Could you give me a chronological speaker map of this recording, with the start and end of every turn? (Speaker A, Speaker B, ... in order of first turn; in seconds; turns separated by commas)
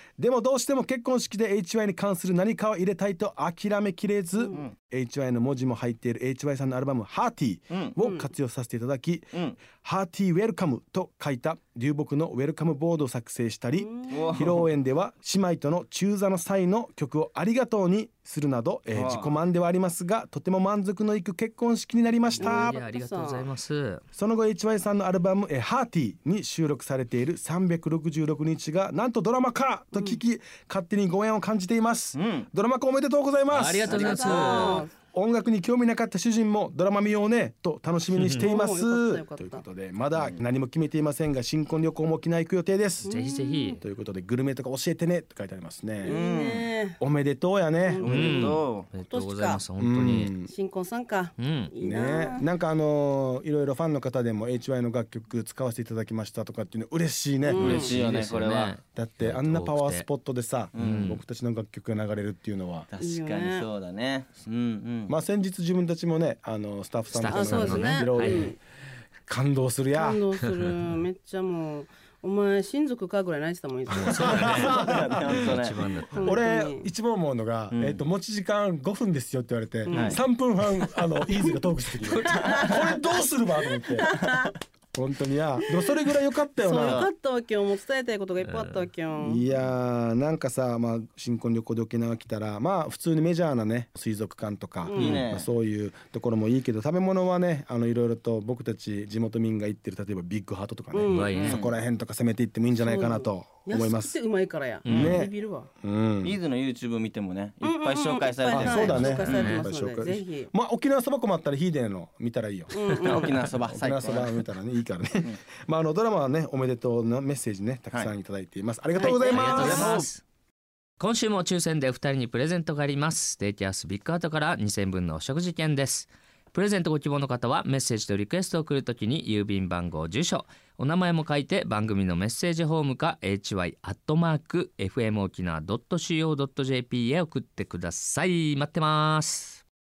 Speaker A: 0.2-22.8, Speaker B: 4.4-4.6, Speaker C: 7.7-8.0, Speaker B: 8.0-8.3, Speaker C: 9.3-9.6, Speaker B: 13.7-14.4, Speaker C: 14.1-14.7, Speaker C: 18.9-19.4, Speaker D: 22.3-24.0, Speaker B: 22.4-23.5, Speaker A: 24.1-43.1, Speaker B: 29.9-30.2, Speaker C: 32.1-32.5, Speaker D: 33.5-34.9, Speaker C: 33.8-34.8, Speaker B: 33.9-34.9, Speaker D: 38.1-38.5, Speaker B: 38.4-39.6, Speaker C: 40.2-40.4, Speaker B: 43.0-43.8, Speaker D: 43.1-43.8, Speaker A: 43.8-46.2, Speaker B: 46.0-47.0, Speaker C: 46.0-46.7, Speaker A: 47.0-48.0, Speaker B: 47.8-49.6, Speaker C: 48.0-48.9, Speaker D: 48.0-50.3, Speaker A: 49.8-50.5, Speaker B: 50.5-52.5, Speaker D: 51.4-51.7, Speaker A: 51.8-58.0, Speaker B: 57.5-57.9, Speaker C: 57.5-58.8, Speaker D: 57.6-60.1, Speaker A: 58.9-62.9, Speaker C: 60.7-61.1, Speaker D: 60.8-61.2, Speaker C: 62.9-65.2, Speaker B: 63.0-63.7, Speaker A: 65.1-68.6, Speaker D: 67.1-68.5, Speaker B: 67.2-68.6, Speaker A: 69.3-70.2, Speaker B: 70.0-74.8, Speaker D: 73.9-76.4, Speaker A: 73.9-75.0, Speaker C: 74.7-75.8, Speaker B: 76.1-76.9, Speaker A: 76.2-84.3, Speaker C: 77.7-78.0, Speaker B: 79.8-80.2, Speaker C: 79.9-80.2, Speaker B: 81.3-81.6, Speaker B: 82.2-83.0, Speaker B: 83.6-84.5, Speaker A: 84.9-87.1, Speaker B: 86.6-89.4, Speaker C: 86.8-87.1, Speaker D: 88.4-88.9, Speaker A: 89.2-104.2, Speaker B: 94.8-95.3, Speaker C: 95.0-95.5, Speaker B: 100.9-101.3, Speaker D: 101.1-101.6, Speaker C: 101.3-101.8, Speaker B: 102.8-105.7, Speaker D: 104.8-105.2, Speaker A: 104.9-106.4, Speaker C: 106.2-109.5, Speaker B: 107.6-110.5, Speaker A: 108.5-120.0, Speaker D: 108.8-109.7, Speaker B: 112.7-113.3, Speaker C: 113.0-114.4, Speaker B: 119.0-120.0, Speaker D: 119.0-120.2, Speaker C: 119.4-120.1, Speaker D: 121.0-139.6